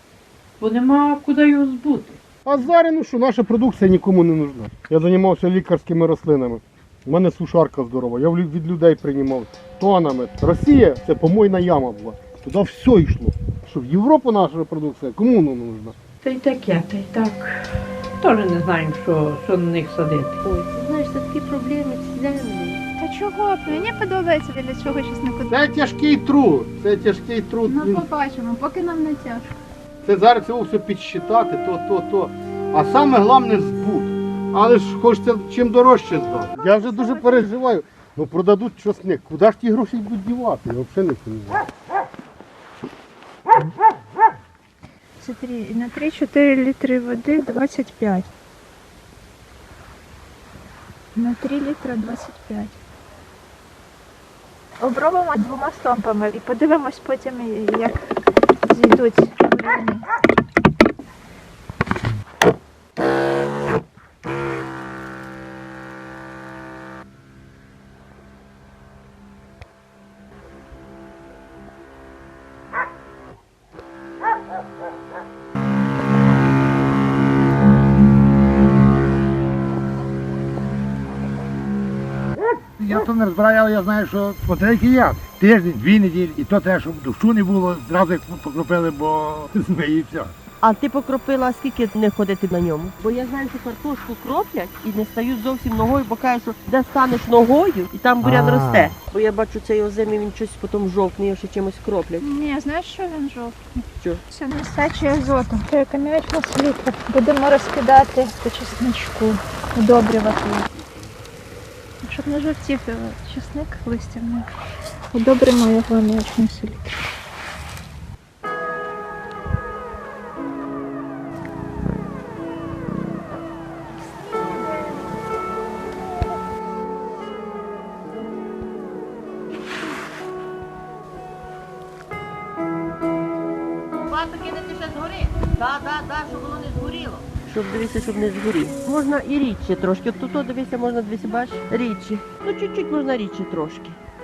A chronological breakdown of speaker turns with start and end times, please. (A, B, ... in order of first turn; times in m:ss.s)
0:00.6-0:02.2 A
0:02.4-0:15.9 B
0:16.2-0:17.6 A
0:18.2-0:20.4 A
0:20.4-0:22.8 C
0:23.0-0:25.5 D
0:25.5-0:28.0 B
0:27.7-0:29.6 D
0:30.0-0:41.6 B
0:36.7-0:37.5 D
0:45.2-0:48.3 D
0:51.1-0:52.8 D
0:54.8-0:58.0 D
0:58.7-1:00.0 D
1:22.8-1:30.3 E
1:30.6-1:42.2 C
1:42.2-1:50.7 D
1:52.0-1:54.5 D
1:55.1-1:57.0 D
2:14.1-2:24.0 C